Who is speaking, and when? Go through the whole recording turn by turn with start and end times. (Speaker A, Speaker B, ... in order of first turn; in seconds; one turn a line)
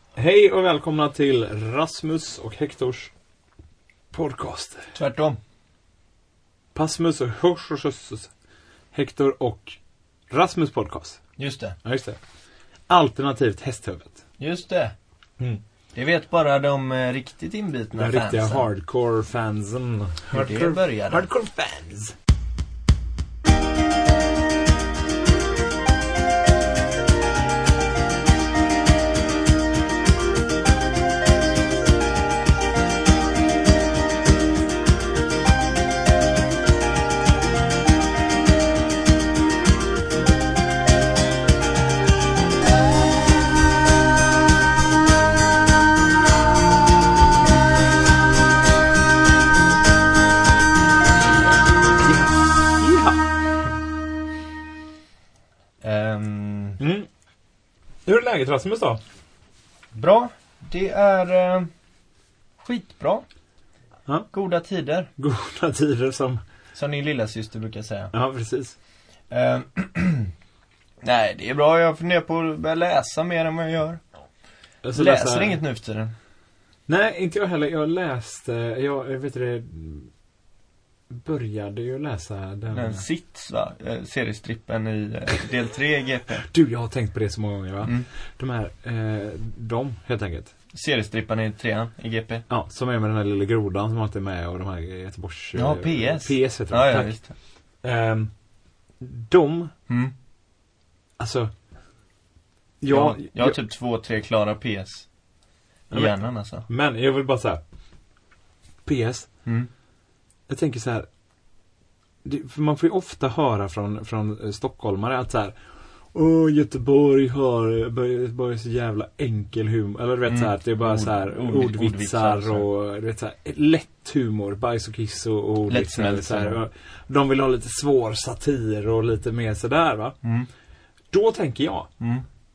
Speaker A: 0.1-3.1
Speaker A: 4.1-4.9
Speaker B: 4.9-5.4
Speaker A: 6.7-8.3
Speaker A: 8.9-9.8
Speaker A: 10.3-11.2
Speaker B: 11.4-11.8
Speaker A: 11.8-12.2
Speaker A: 12.9-14.2
Speaker B: 14.4-14.9
Speaker B: 15.9-18.7
Speaker A: 18.0-22.1
Speaker B: 20.3-21.3
Speaker A: 52.0-53.2
Speaker B: 55.8-56.8
Speaker A: 56.8-57.1
Speaker A: 58.0-59.0
Speaker B: 59.9-61.7
Speaker B: 62.6-63.2
Speaker B: 64.3-65.1
Speaker A: 65.2-66.4
Speaker B: 66.7-68.1
Speaker A: 68.1-68.8
Speaker B: 69.3-70.3
Speaker B: 71.0-74.0
Speaker A: 74.8-75.6
Speaker B: 74.9-76.1
Speaker A: 76.9-80.1
Speaker A: 81.1-83.0
Speaker B: 82.7-86.5
Speaker A: 86.4-90.5
Speaker B: 90.7-92.4
Speaker A: 92.5-97.1
Speaker B: 95.5-97.3
Speaker A: 97.8-98.3
Speaker A: 99.0-99.7
Speaker B: 99.9-100.1
Speaker A: 101.2-101.5
Speaker A: 102.8-103.6
Speaker B: 102.9-105.0
Speaker B: 105.9-106.7
Speaker A: 106.7-107.6
Speaker A: 108.8-109.3
Speaker B: 109.4-109.7
Speaker A: 110.5-111.1
Speaker A: 112.2-115.5
Speaker A: 116.1-130.1
Speaker B: 120.3-122.7
Speaker B: 125.7-126.6
Speaker B: 130.2-130.5
Speaker A: 131.1-131.9
Speaker B: 132.0-132.2